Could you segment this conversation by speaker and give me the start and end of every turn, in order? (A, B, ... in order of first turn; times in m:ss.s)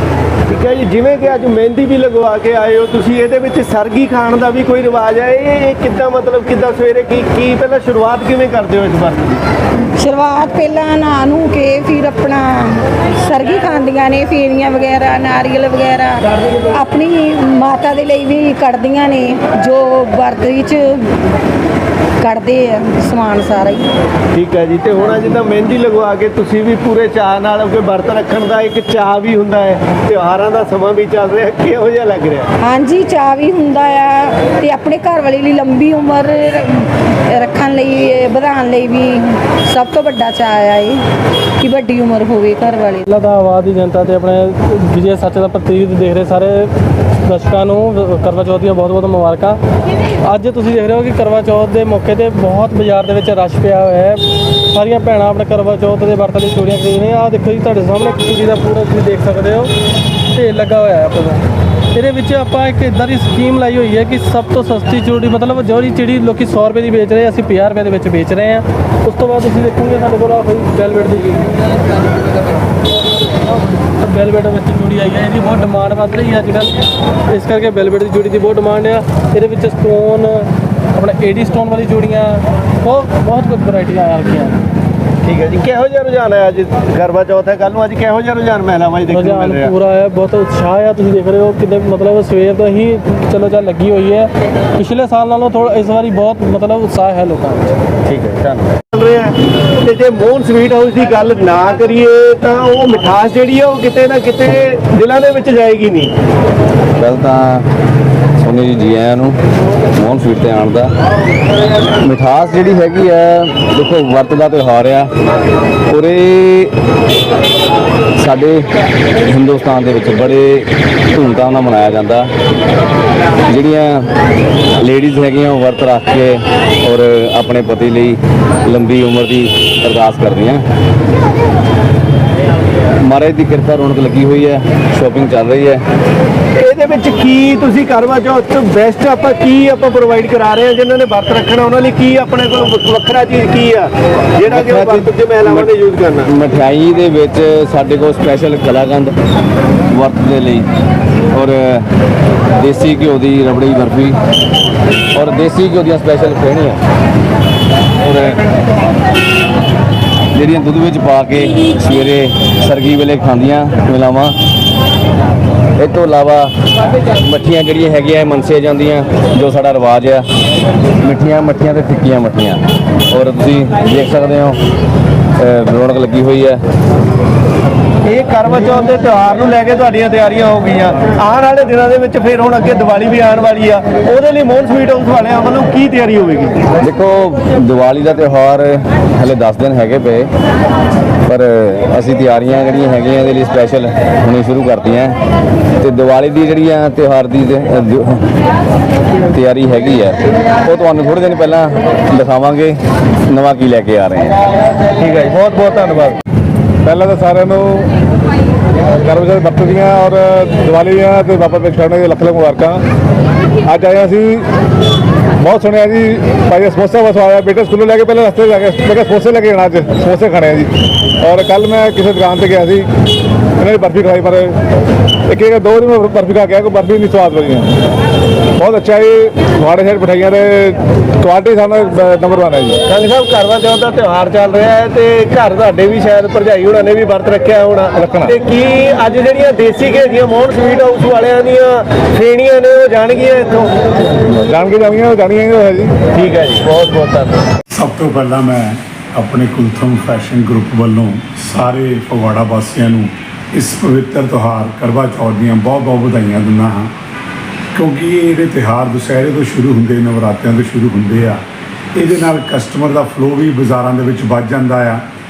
0:00.5-0:09.4 A
0:10.0-0:16.2 B
0:16.7-0:21.0 B
0:22.2-0:23.9 B
0:24.3-0:32.5 A
0:32.6-0:41.0 B
0:41.6-0:43.0 B
0:43.1-0:46.7 C
0:47.3-0:49.6 C
0:50.3-0:59.7 C
1:00.3-1:11.5 C
1:14.0-1:16.7 C
1:17.3-1:20.4 C
1:21.0-1:24.6 C
1:25.2-1:29.7 A
1:29.1-1:37.7 C
1:38.1-1:46.1 A
1:47.0-1:47.7 D
1:48.4-1:49.4 D
1:49.9-1:50.9 D
1:52.0-1:55.1 D
1:55.9-1:56.7 D
1:58.2-1:58.6 D
1:59.2-2:02.3 D
2:03.5-2:04.0 D
2:04.8-2:10.6 D
2:13.0-2:15.8 D
2:16.6-2:26.3 A
2:24.5-2:25.7 D
2:26.2-2:29.1 D
2:29.9-2:30.7 D
2:31.3-2:31.8 D
2:32.6-2:34.2 D
2:35.1-2:36.8 D
2:38.0-2:38.4 D
2:40.3-2:44.3 D
2:45.8-2:46.5 D
2:47.2-2:50.2 D
2:51.0-2:54.6 D
2:55.4-2:56.6 D
2:58.0-3:06.6 A
3:06.8-3:10.3 D
3:11.2-3:15.2 D
3:15.8-3:18.2 D
3:19.3-3:24.4 D
3:25.0-3:26.2 A
3:26.8-3:27.9 E
3:29.0-3:32.8 E
3:33.6-3:34.5 E
3:35.4-3:40.7 E
3:41.2-3:42.9 E
3:43.6-3:44.5 E
3:45.3-3:47.7 E
3:48.6-3:52.8 E
3:52.9-4:03.7 A
3:58.0-3:58.3 E
4:04.3-4:05.9 E
4:06.1-4:07.4 A
4:07.7-4:16.9 F
4:17.7-4:21.4 F
4:22.0-4:25.0 F